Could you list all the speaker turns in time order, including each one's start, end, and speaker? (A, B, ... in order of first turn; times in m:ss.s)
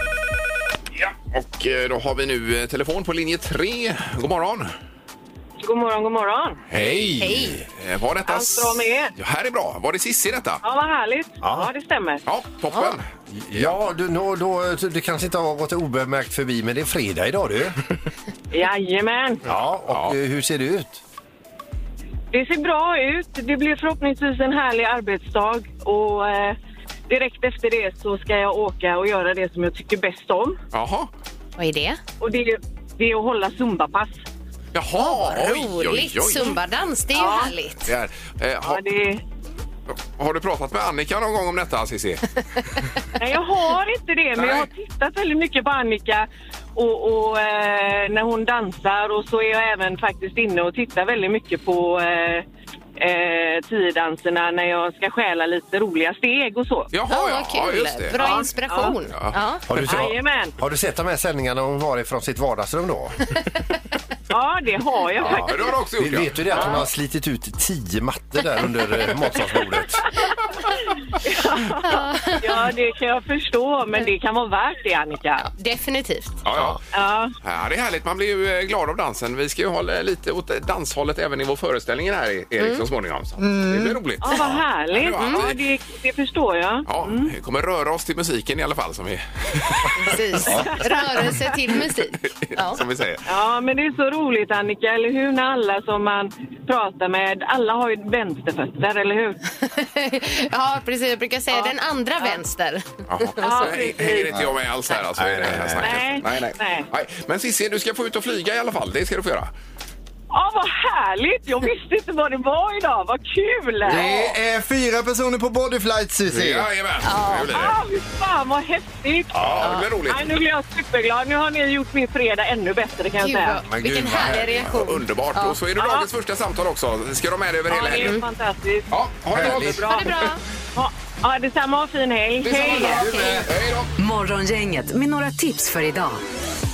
0:00.9-0:04.7 A
0:05.6-0:06.6 B
0:06.7-0:07.6 C
0:06.8-0:07.1 A
0:07.2-0:07.6 D
0:07.8-0:10.6 A
0:08.2-0:09.1 B
0:10.6-0:12.2 B
0:11.4-0:11.7 C
0:12.2-0:13.0 A
0:13.3-0:17.9 C
0:18.5-0:19.4 B
0:19.4-0:21.0 C
0:19.9-0:20.2 A
0:22.3-0:26.6 B
0:27.1-0:30.6 B
0:30.7-0:31.1 A
0:31.6-0:32.0 D
0:32.2-0:34.2 B
0:34.7-0:36.6 A
0:35.0-0:37.9 D
0:37.1-0:37.5 B
0:37.8-0:38.8 A
0:38.6-0:39.2 B
0:40.1-0:42.2 A
0:43.2-0:52.4 B
0:44.4-0:44.7 A
0:53.0-0:56.9 B
0:56.9-0:58.4 A
0:57.1-0:59.6 D
0:58.1-0:59.0 B
0:59.2-1:00.0 A
0:59.7-1:03.2 C
0:59.8-1:00.5 B
1:04.3-1:05.7 B
1:05.2-1:06.8 A
1:06.0-1:10.0 C
1:06.5-1:06.8 B
1:11.2-1:15.5 B
1:11.8-1:12.5 D
1:15.5-1:16.4 D
1:16.4-1:16.8 A
1:16.9-1:17.3 B
1:17.4-1:25.6 A
1:23.4-1:24.0 E
1:24.2-1:27.3 B
1:25.2-1:25.4 D
1:26.9-1:29.9 A
1:30.0-1:32.8 D
1:30.5-1:30.8 B
1:32.4-1:33.2 A
1:33.2-1:39.4 B
1:39.6-1:44.0 D
1:41.5-1:42.4 B
1:43.1-1:49.5 A
1:43.4-1:44.3 B
1:45.1-1:46.0 C
1:45.8-1:46.9 B
1:50.3-1:54.1 B
1:53.8-1:56.7 E
1:53.9-1:54.3 A
1:56.3-1:57.8 A
1:57.0-1:57.5 D
1:57.5-2:03.6 B
1:59.3-1:59.8 C
1:59.4-2:00.4 A
2:03.2-2:05.6 D
2:03.7-2:04.8 C
2:04.6-2:08.2 A
2:05.8-2:06.1 B
2:07.7-2:13.2 B
2:08.0-2:08.2 D
2:08.9-2:09.9 A
2:09.3-2:09.8 C
2:09.8-2:10.4 D
2:12.4-2:13.9 A
2:12.6-2:13.5 C
2:14.0-2:16.2 F